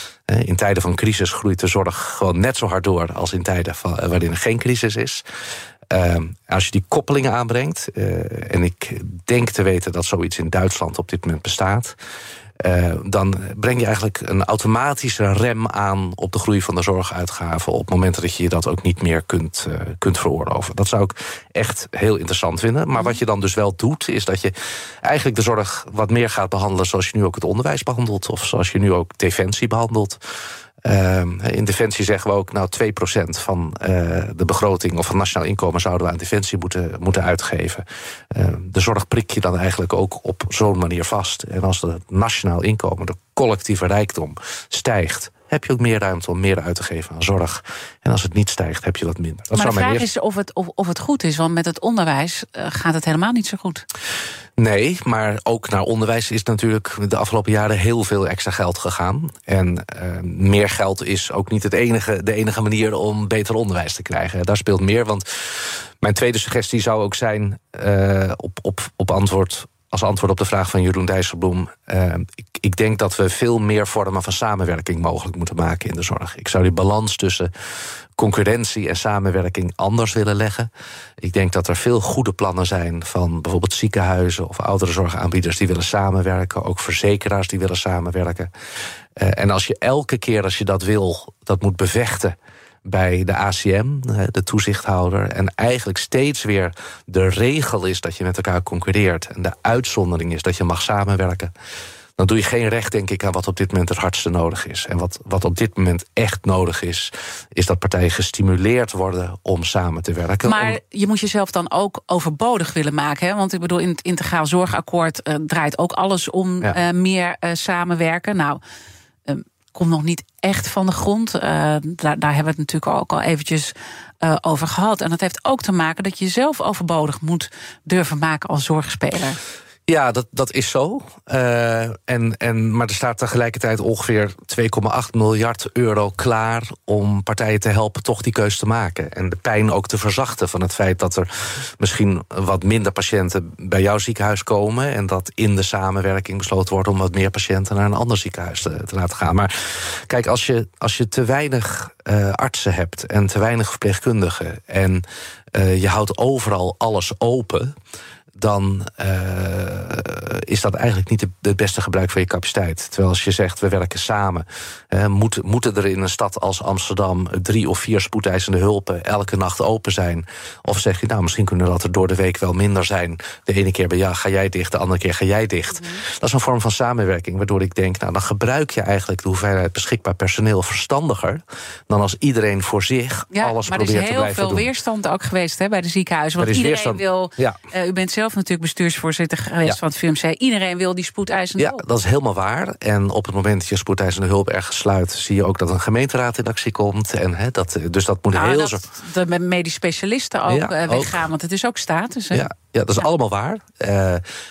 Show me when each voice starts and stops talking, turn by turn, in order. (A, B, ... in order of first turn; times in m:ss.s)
0:00.3-0:05.2 A
0:05.9-0:12.0 A
0:12.6-0:30.2 A
0:30.8-0:50.0 A
0:49.5-0:53.8 B
0:54.6-1:17.5 A
1:18.2-1:20.7 A
1:21.2-1:28.5 A
1:29.2-1:41.5 A
1:42.2-1:50.8 A
1:50.4-1:58.6 B
1:59.3-2:09.4 B
2:09.9-2:37.8 A
2:38.4-3:04.7 A
3:03.3-3:11.8 B
3:06.4-3:07.6 A
3:11.6-3:18.8 A
3:18.3-3:22.5 B
3:20.5-3:21.3 A
3:22.3-3:24.2 A